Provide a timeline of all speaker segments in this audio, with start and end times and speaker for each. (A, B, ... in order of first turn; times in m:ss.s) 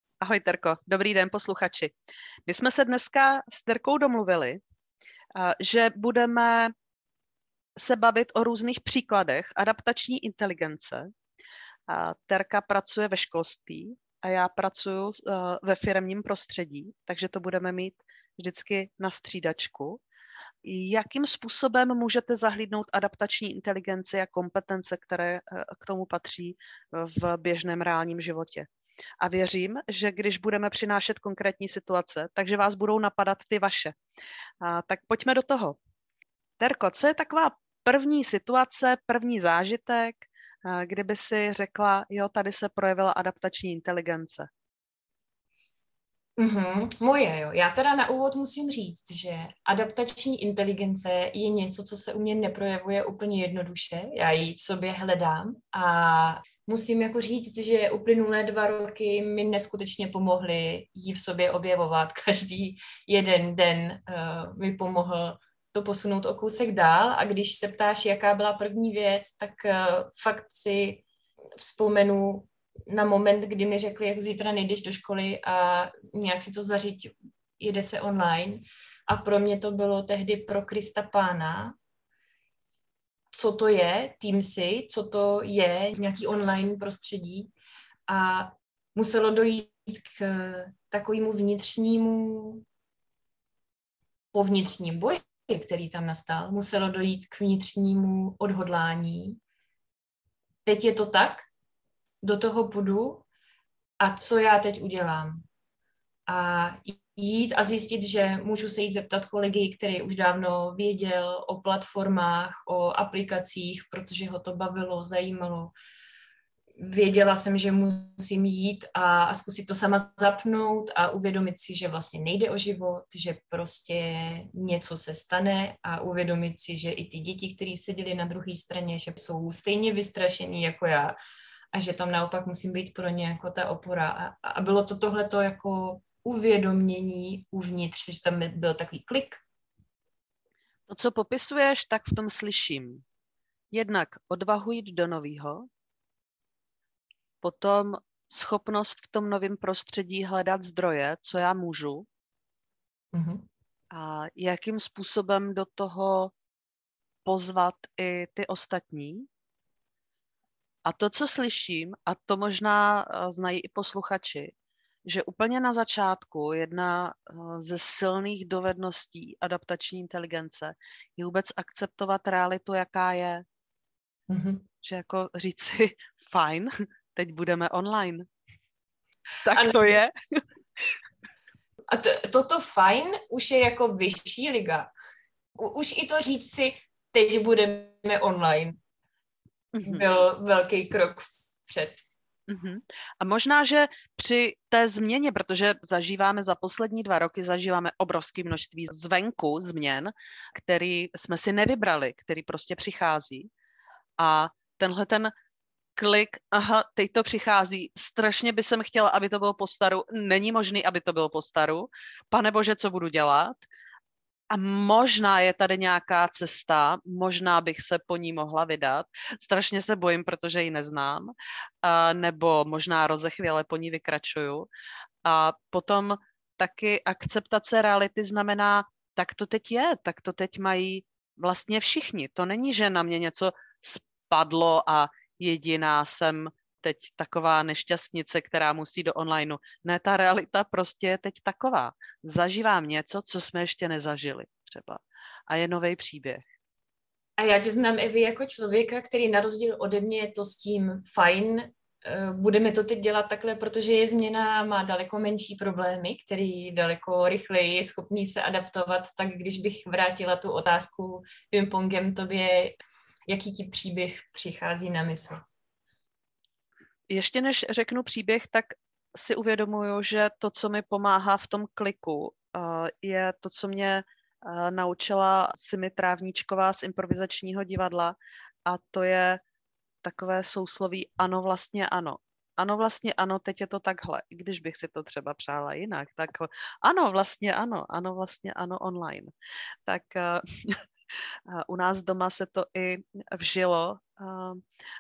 0:00.2-0:01.9 A
0:02.5-0:04.6 A
0:05.4-0:06.7 A
0:07.8-0:11.1 A
0:11.9-0:20.0 A
0:20.6-0:28.7 A
0:29.2-0:34.0 A
0:34.6-0:35.8 A
0:36.6-0:44.5 A
0:46.4-1:11.0 B
1:11.6-1:21.8 B
1:23.3-1:27.5 B
1:28.1-1:32.6 B
1:34.3-1:39.4 B
1:40.6-1:41.5 B
1:42.2-1:43.2 B
1:44.0-1:45.4 B
1:46.3-1:55.7 B
1:56.8-2:11.2 B
2:11.7-2:19.4 B
2:20.9-2:23.0 A
2:23.7-2:25.6 A
2:27.4-2:32.1 A
2:33.1-2:33.5 B
2:33.9-2:36.3 A
2:37.2-2:39.2 A
2:40.8-2:44.5 A
2:45.1-2:53.4 A
2:54.3-2:54.7 B
2:54.8-2:58.2 A
2:59.5-3:00.1 A
2:59.5-2:59.9 B
3:01.9-3:04.9 B
3:05.6-3:08.8 B
3:09.7-3:10.1 A
3:09.8-3:12.0 B
3:12.5-3:23.5 A
3:24.2-3:25.3 A
3:26.0-3:33.6 A
3:34.5-3:44.7 A
3:45.2-4:06.4 A
4:07.4-4:22.8 B
4:23.3-4:25.4 B
4:27.1-4:39.4 A
4:40.0-4:49.3 A
4:49.8-4:50.8 A
4:51.5-4:54.6 A